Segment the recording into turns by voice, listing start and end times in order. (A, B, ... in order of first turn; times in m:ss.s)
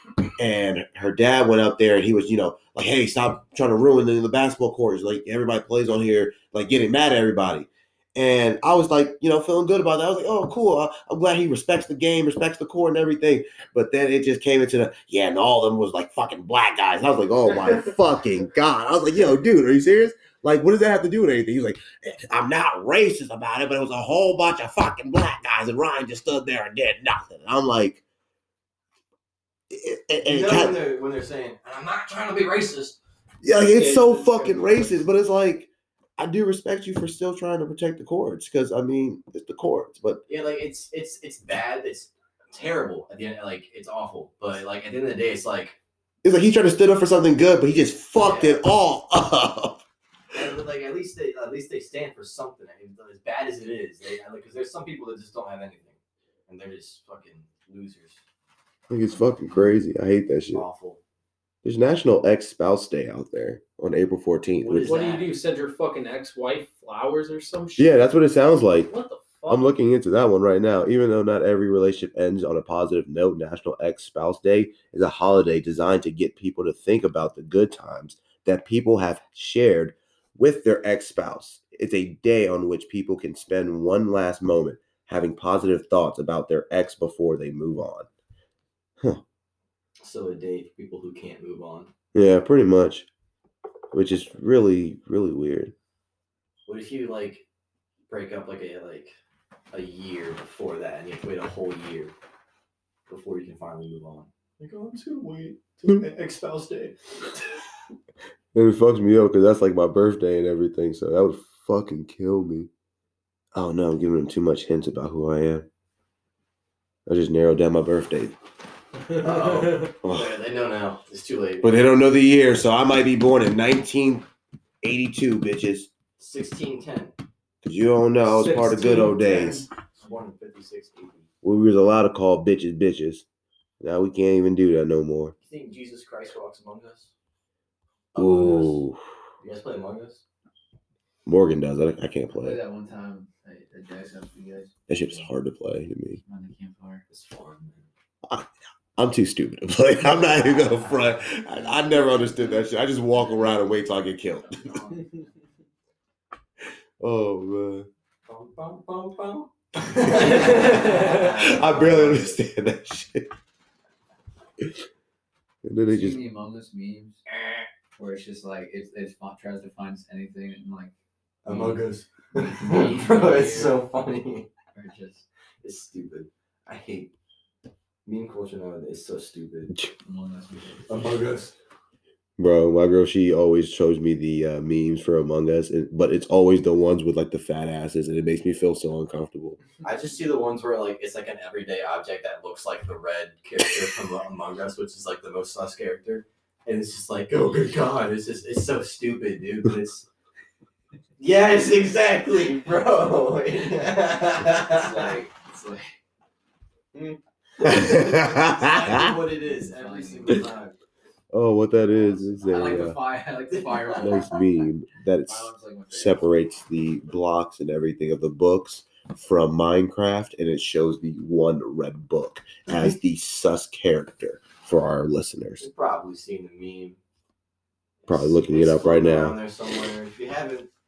0:00.4-0:28.0 A
0:29.7-0:30.8 A
0:30.2-0:33.0 B
0:33.4-0:40.2 A
0:33.7-0:35.0 C
0:40.3-0:45.8 B
0:46.2-0:49.8 A
0:48.2-0:48.6 B
0:50.3-0:58.2 B
0:58.9-1:00.6 A
1:00.5-1:01.0 B
1:01.6-1:04.9 A
1:04.6-1:05.3 B
1:04.8-1:08.0 C
1:07.8-1:08.9 A
1:08.9-1:09.7 C
1:09.5-1:28.1 A
1:30.0-1:31.9 B
1:32.1-1:33.1 A
1:33.9-1:35.7 A
1:36.7-1:37.4 B
1:38.1-1:39.1 B
1:39.7-1:42.1 B
1:43.1-1:47.0 B
1:48.5-1:52.7 A
1:53.5-1:55.7 A
1:57.0-1:58.3 A
1:59.1-1:59.8 C
1:59.1-2:01.7 B
2:00.0-2:00.3 A
2:01.6-2:04.3 A
2:04.8-2:05.9 A
2:06.2-2:07.1 B
2:07.6-2:09.7 A
2:08.2-2:09.7 C
2:09.9-2:11.3 B
2:11.4-2:13.2 A
2:13.8-2:15.3 A
2:15.4-2:17.1 B
2:18.1-2:18.8 B
2:18.2-2:19.0 A
2:19.4-2:20.2 B
2:21.2-2:22.6 A
2:22.3-2:25.3 D
2:24.9-2:26.2 A
2:26.2-2:27.0 D
2:27.1-2:27.9 B
2:28.2-2:34.8 A
2:31.5-2:32.4 D
2:34.5-2:35.2 D
2:37.0-2:37.9 A
2:38.2-2:42.4 B
2:40.0-2:43.3 A
2:40.3-2:41.1 C
2:41.1-2:41.5 D
2:45.6-2:46.2 A
2:45.8-2:47.2 D
2:47.4-2:47.6 B
2:48.0-2:50.9 D
2:51.4-2:54.5 B
2:51.5-2:51.8 D
2:52.4-2:53.8 D
2:54.7-2:55.2 D
2:55.6-2:57.1 B
2:58.0-2:59.7 B
3:00.0-3:01.0 D
3:00.9-3:01.5 B
3:02.4-3:09.6 A
3:09.8-3:20.0 B
3:21.2-3:25.2 B
3:24.5-3:25.9 D
3:26.9-3:30.8 B
3:27.6-3:28.8 A
3:29.4-3:30.5 D
3:31.3-3:33.0 A
3:31.8-3:34.7 D
3:33.5-3:34.2 B
3:34.0-3:45.6 A
3:35.2-3:36.5 D
3:45.6-3:47.0 B
3:48.0-3:50.7 B
3:48.1-3:49.4 A